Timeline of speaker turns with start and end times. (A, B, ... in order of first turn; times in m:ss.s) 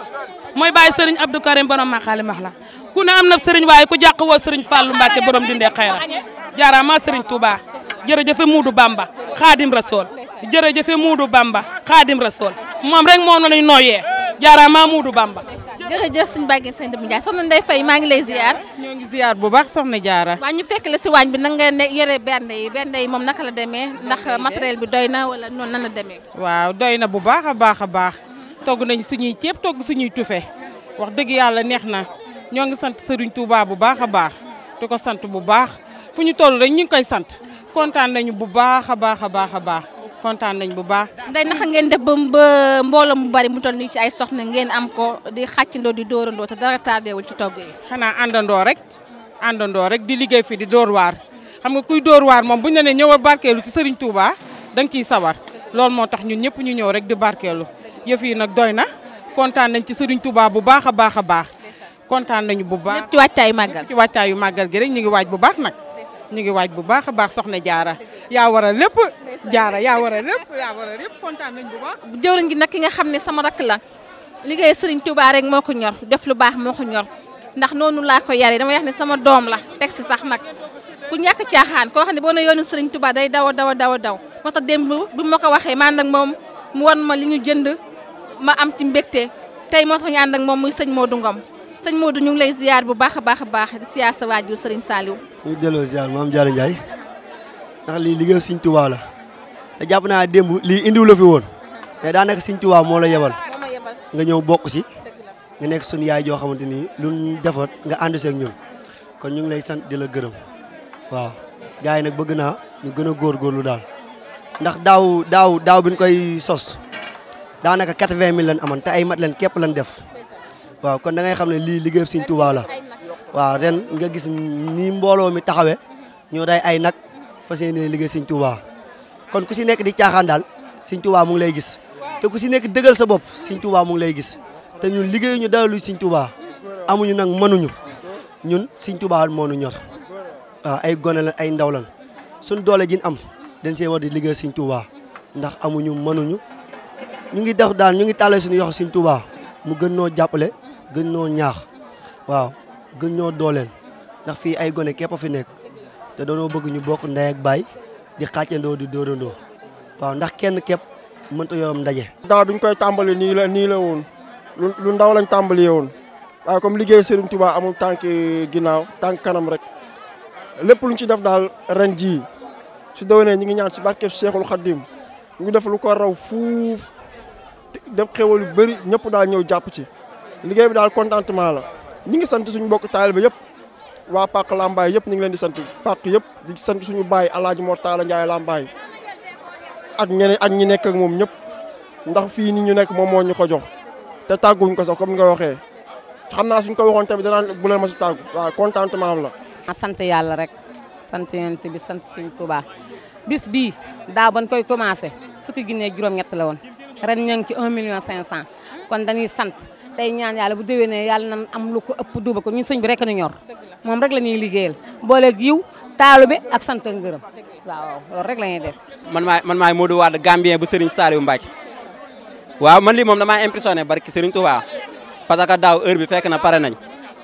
0:00.5-0:15.4 A
0:15.8-0:18.6 B
0:18.6-0:20.4 C
0:20.4-0:26.2 B
0:24.1-0:24.6 C
0:26.3-0:41.1 C
0:41.2-0:47.7 B
0:47.8-0:48.8 C
0:49.4-1:01.5 C
1:02.1-1:03.1 C
1:02.8-1:03.9 B
1:03.7-1:05.8 C
1:06.3-1:12.0 C
1:12.0-1:13.8 B
1:14.4-1:20.4 B
1:21.1-1:27.8 B
1:28.4-1:35.2 B
1:35.4-1:36.8 D
1:37.8-1:39.0 D
1:39.8-1:41.5 D
1:42.0-1:43.4 D
1:43.5-1:44.0 B
1:44.1-1:44.9 D
1:45.6-1:48.5 D
1:49.2-1:50.3 D
1:51.1-1:53.8 D
1:54.6-1:56.8 D
1:57.6-2:00.0 D
2:00.8-2:02.7 D
2:03.3-2:06.9 D
2:07.4-2:08.6 D
2:09.3-2:16.3 D
2:16.9-2:17.8 D
2:18.4-2:19.8 D
2:20.6-2:21.9 D
2:22.4-2:26.4 D
2:27.3-2:31.6 D
2:32.3-2:33.7 D
2:34.2-2:35.5 D
2:36.2-2:37.7 D
2:38.2-2:39.4 D
2:40.0-2:42.1 D
2:42.4-2:44.0 E
2:44.6-2:45.9 E
2:46.5-2:49.6 E
2:50.6-2:52.1 E
2:53.0-2:54.8 E
2:55.4-2:56.8 E
2:57.9-2:59.8 E
3:00.5-3:01.5 E
3:02.1-3:03.3 E
3:04.1-3:08.6 E
3:10.0-3:11.3 E
3:12.1-3:13.6 E
3:14.3-3:15.6 E
3:16.3-3:19.3 E
3:19.7-3:20.5 F
3:21.1-3:22.6 F
3:23.2-3:38.8 F
3:39.1-3:41.5 G
3:42.6-3:44.6 G
3:45.3-3:46.8 G